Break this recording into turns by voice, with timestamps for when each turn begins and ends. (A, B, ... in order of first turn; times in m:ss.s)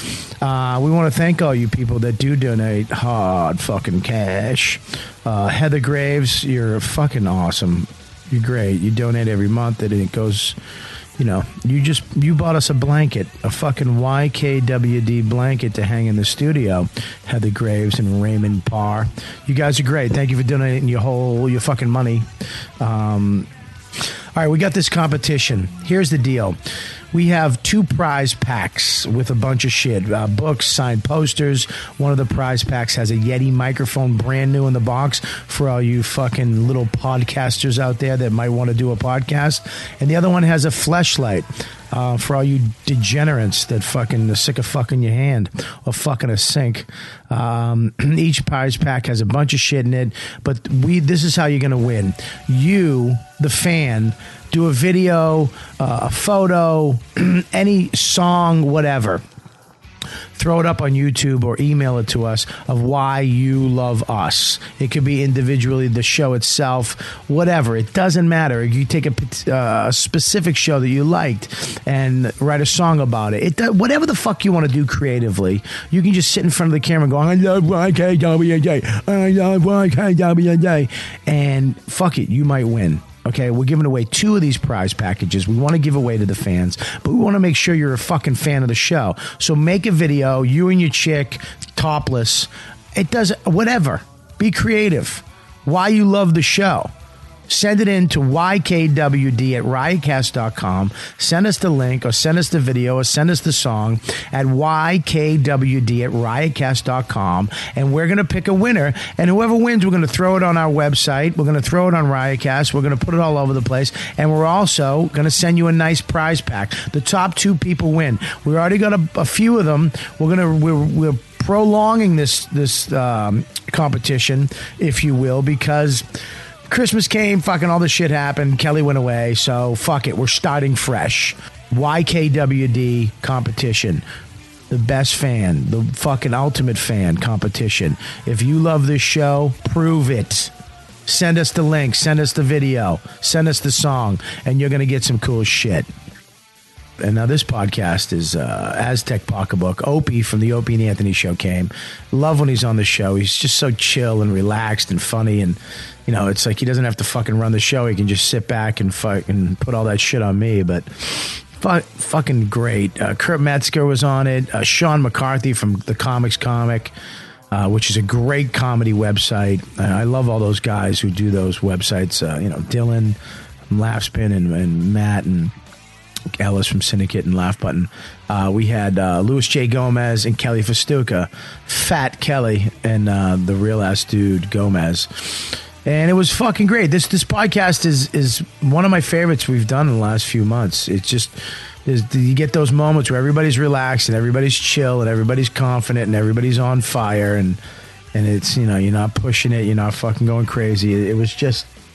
0:00.4-0:10.6 A
0:11.2-0:22.3 A
0:22.8-0:23.5 A
0:24.4-0:26.6 A
0:27.1-0:59.2 A
1:00.4-1:36.9 A
1:37.5-2:06.0 A
2:06.7-2:14.0 A
2:14.7-2:20.5 A
2:21.1-2:25.9 A
2:27.0-2:46.9 A
2:47.5-2:53.2 A
2:53.7-2:55.5 A
2:56.4-3:17.6 A
3:18.2-3:21.7 A